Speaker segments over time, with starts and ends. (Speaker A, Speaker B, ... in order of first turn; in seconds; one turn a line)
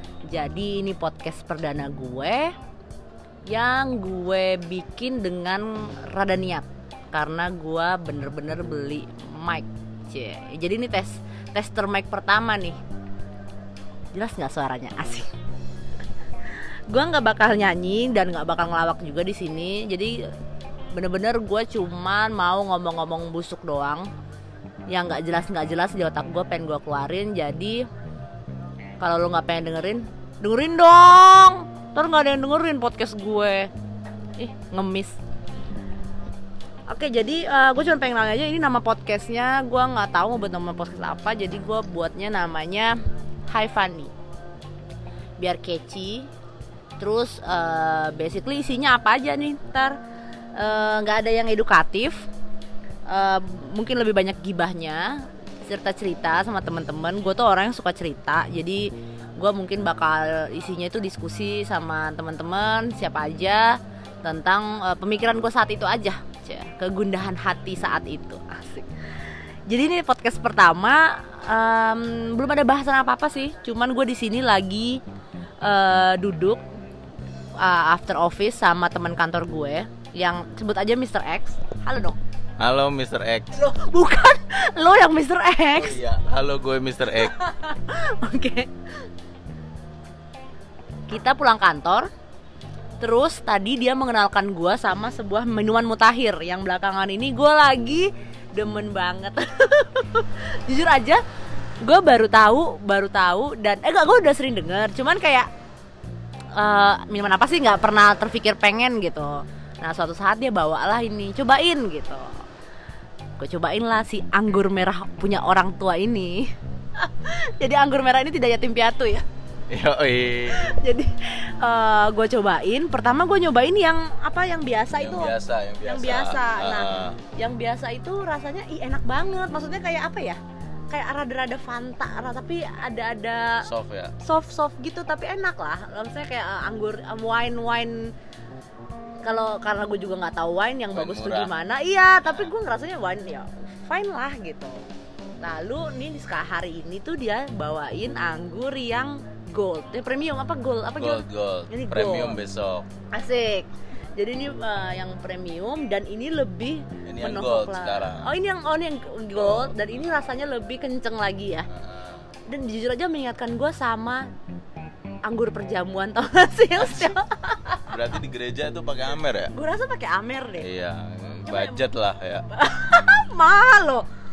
Speaker A: 0.3-2.5
Speaker A: 3.5-12.8
Speaker A: 14.1-15.3
Speaker A: 16.9-20.2
Speaker A: 20.9-24.1
Speaker A: 24.9-27.8
Speaker A: 29.0-33.7
Speaker A: 34.4-35.2
Speaker A: 36.9-43.0
Speaker A: 43.5-44.1
Speaker A: 45.4-46.3
Speaker A: 47.0-50.0
Speaker A: 50.6-52.3
Speaker A: 53.1-68.9
Speaker A: 69.7-75.0
Speaker A: 75.6-76.6
Speaker A: 77.6-82.2
Speaker B: 82.6-83.5
Speaker A: 83.5-86.0
Speaker B: 85.7-87.4
Speaker A: 87.1-88.7
Speaker A: 91.1-92.1
Speaker A: 93.0-101.2
Speaker A: 101.8-105.5
Speaker A: 106.5-112.4
Speaker A: 113.4-119.2
Speaker B: 119.7-120.7
Speaker A: 120.5-125.3
Speaker B: 124.9-127.2
Speaker A: 125.8-130.4
Speaker A: 130.9-133.6
Speaker B: 133.6-134.1
Speaker A: 134.2-138.0
Speaker A: 139.2-144.8
Speaker B: 140.9-141.5
Speaker B: 142.2-142.5
Speaker A: 145.4-152.4
Speaker B: 151.0-152.8
Speaker A: 153.1-161.7
Speaker B: 157.1-158.3
Speaker B: 159.3-160.1
Speaker B: 161.7-162.2
Speaker A: 162.5-164.3
Speaker A: 165.2-167.9
Speaker B: 167.8-169.5
Speaker A: 169.5-170.7
Speaker B: 170.6-172.4
Speaker A: 171.4-171.9
Speaker A: 172.5-174.1